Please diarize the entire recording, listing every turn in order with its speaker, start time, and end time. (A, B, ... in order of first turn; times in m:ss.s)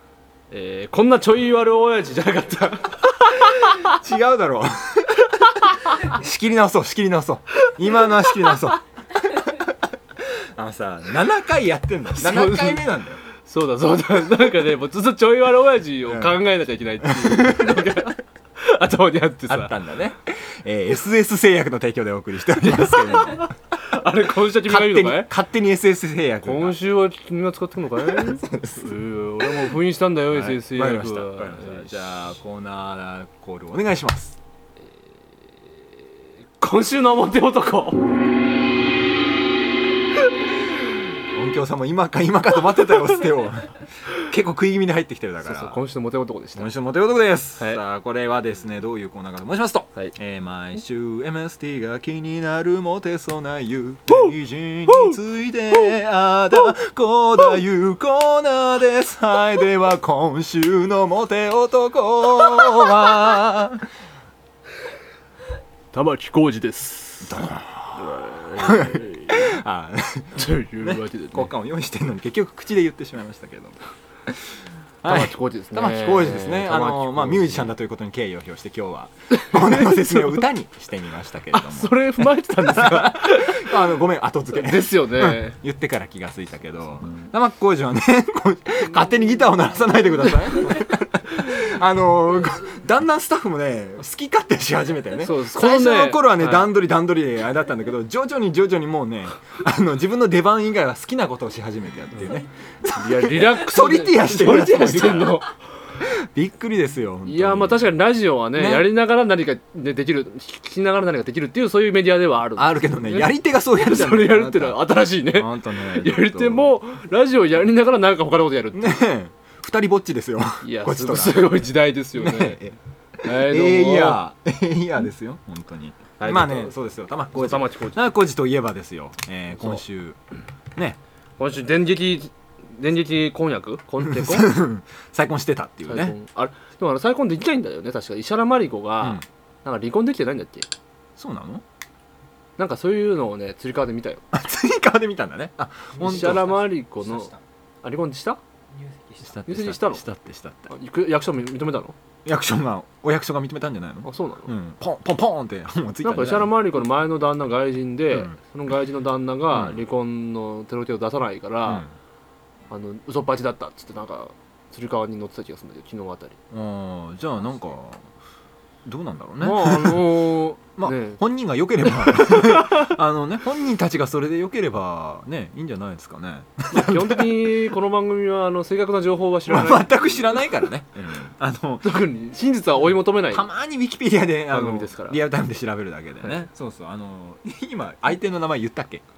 0:00.5-0:03.9 A
0:03.6-0:13.2 B
0:12.2-0:12.8 A
0:13.4-0:19.7 A
0:16.1-0:16.4 B
0:17.0-0:18.1 B
0:19.5-0:23.5 B
0:22.7-0:25.3 A
0:24.6-0:26.8 B
0:26.4-0:31.9 A
0:28.2-0:28.9 B
0:30.3-0:34.4 B
0:36.6-0:38.2 A
0:41.3-0:45.8 B
0:45.4-0:46.7 A
0:46.6-1:03.8 B
0:54.9-0:55.2 A
1:05.9-1:09.5 A
1:07.2-1:45.4 B
1:10.3-1:11.5 A
1:15.0-1:17.7 A
1:19.3-1:20.5 A
1:21.5-1:23.8 A
1:24.5-1:25.6 A
1:35.2-1:36.7 A
1:42.9-1:45.5 A
1:46.0-1:47.9 B
1:47.2-1:59.0 A
1:48.6-1:48.9 B
1:52.6-1:56.8 B
1:58.7-2:10.2 B
2:00.6-2:02.6 A
2:03.2-2:04.2 A
2:06.2-2:06.7 A
2:07.3-2:08.0 A
2:11.4-2:14.5 A
2:14.0-2:16.2 B
2:15.9-2:20.7 A
2:21.2-2:21.6 B
2:22.6-2:24.2 A
2:24.3-2:27.4 B
2:26.0-2:27.3 A
2:27.8-2:28.4 A
2:29.1-2:30.7 B
2:29.5-2:30.0 A
2:30.7-2:31.9 A
2:32.2-2:36.7 B
2:34.0-2:34.5 A
2:36.0-2:41.8 A
2:38.1-2:38.4 B
2:39.5-2:39.8 B
2:41.6-2:41.9 B
2:42.7-2:46.4 A
2:46.5-2:48.1 B
2:48.8-2:50.0 B
2:49.4-2:51.2 A
2:50.8-2:57.6 B
2:51.8-2:52.9 A
2:56.7-2:59.9 A
2:59.5-3:01.9 B
3:01.8-3:03.4 A
3:03.3-3:09.0 B
3:04.5-3:05.2 A